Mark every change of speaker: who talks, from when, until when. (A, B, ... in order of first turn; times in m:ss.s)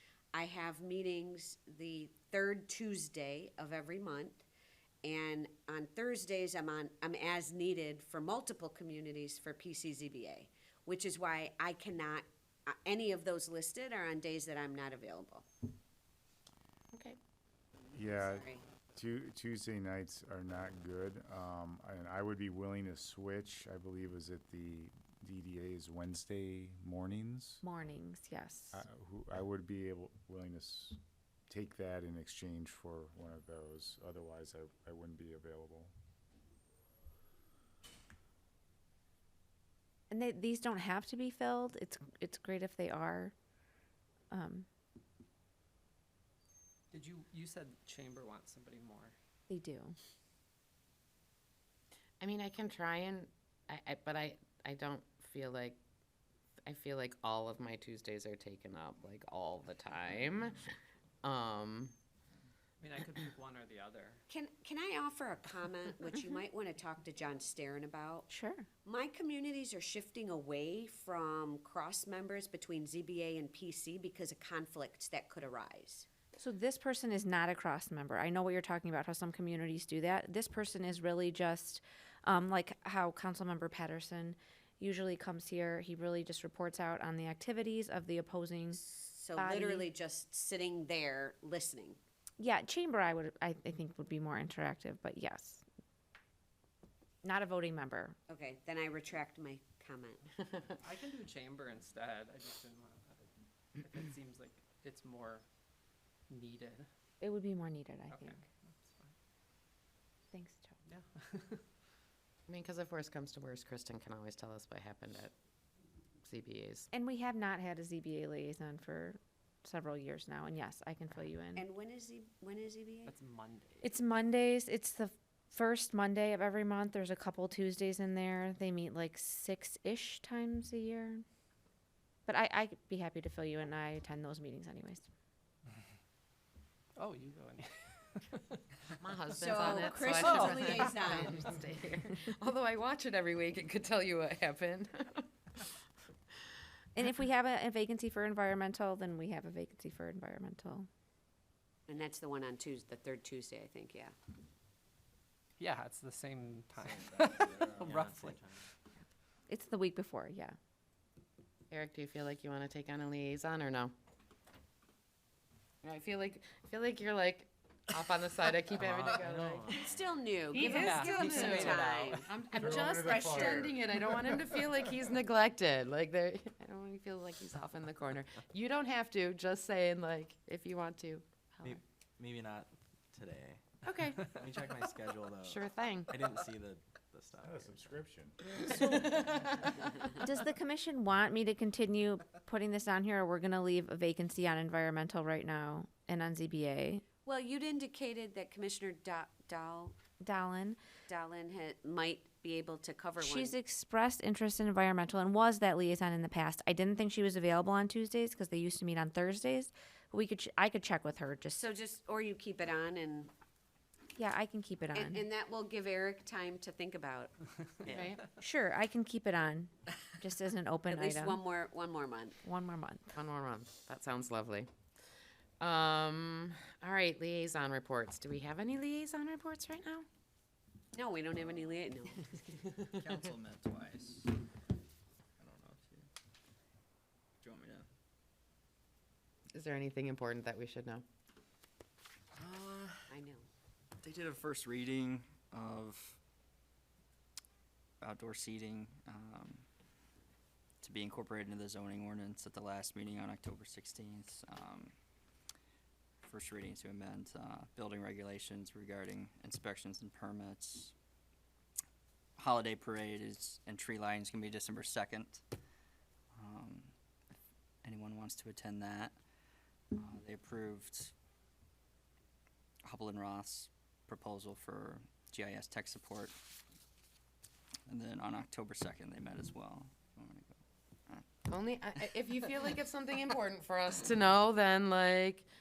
0:00.3-0:04.4 A
0:05.0-0:15.5 A
0:16.9-0:17.2 B
0:17.9-0:27.6 C
0:18.0-0:18.6 A
0:27.6-0:28.8 D
0:28.7-0:35.9 C
0:40.1-0:43.3 D
0:44.3-0:44.7 D
0:46.9-0:49.1 E
0:49.5-0:50.0 D
0:52.2-0:55.8 B
0:56.6-1:00.6 B
1:01.2-1:01.9 B
1:02.8-1:04.2 E
1:04.3-1:08.3 A
1:08.3-1:08.7 D
1:08.8-1:16.1 A
1:16.4-1:28.8 D
1:28.7-1:32.0 A
1:29.4-1:29.9 D
1:32.4-1:35.6 D
1:37.2-1:38.2 D
1:38.3-1:40.2 A
1:40.8-1:43.2 E
1:43.8-1:45.4 E
1:46.3-1:46.9 E
1:47.2-1:48.4 D
1:48.1-1:49.1 E
1:50.3-1:50.8 D
1:50.9-1:51.6 E
1:52.5-1:55.3 B
1:56.2-1:56.9 B
1:56.9-2:01.6 D
2:01.6-2:03.1 A
2:03.0-2:03.9 E
2:03.8-2:11.2 D
2:12.2-2:15.1 D
2:17.0-2:18.6 E
2:19.0-2:25.3 B
2:19.3-2:21.4 A
2:20.3-2:20.8 E
2:26.9-2:30.9 D
2:31.9-2:34.1 A
2:35.6-2:38.6 E
2:36.9-2:38.6 F
2:39.5-2:40.6 D
2:41.7-2:43.9 B
2:45.8-2:49.8 B
2:48.8-2:49.9 F
2:49.7-2:52.3 A
2:50.5-3:01.8 B
2:50.7-2:52.2 E
2:52.6-2:53.8 C
2:52.9-2:53.8 A
3:01.6-3:02.6 F
3:03.2-3:03.5 F
3:03.8-3:04.3 B
3:04.3-3:05.6 F
3:05.4-3:06.2 B
3:06.1-3:07.2 F
3:07.4-3:08.8 C
3:08.7-3:09.8 B
3:10.2-3:17.0 D
3:17.2-3:20.0 A
3:20.2-3:20.8 D
3:21.1-3:23.5 A
3:23.2-3:31.7 D
3:31.6-3:33.3 A
3:34.1-3:35.2 D
3:34.9-3:37.3 A
3:37.9-3:38.1 A
3:37.9-3:38.2 B
3:38.4-3:41.4 D
3:40.9-3:42.4 A
3:42.4-3:43.1 D
3:43.1-3:44.7 B
3:45.6-3:50.1 B
3:50.9-3:52.4 A
3:52.9-3:54.3 G
3:55.4-3:56.1 G
3:57.4-3:57.9 G
3:59.5-4:01.0 B
4:02.3-4:03.1 G
4:03.1-4:03.5 A
4:04.0-4:06.2 G
4:08.0-4:09.7 G
4:10.8-4:14.9 G
4:16.2-4:20.9 G
4:22.4-4:25.4 G
4:26.4-4:26.9 G
4:27.8-4:29.2 G
4:29.9-4:31.1 G
4:32.8-4:36.4 G
4:37.9-4:40.6 G
4:41.5-4:45.5 B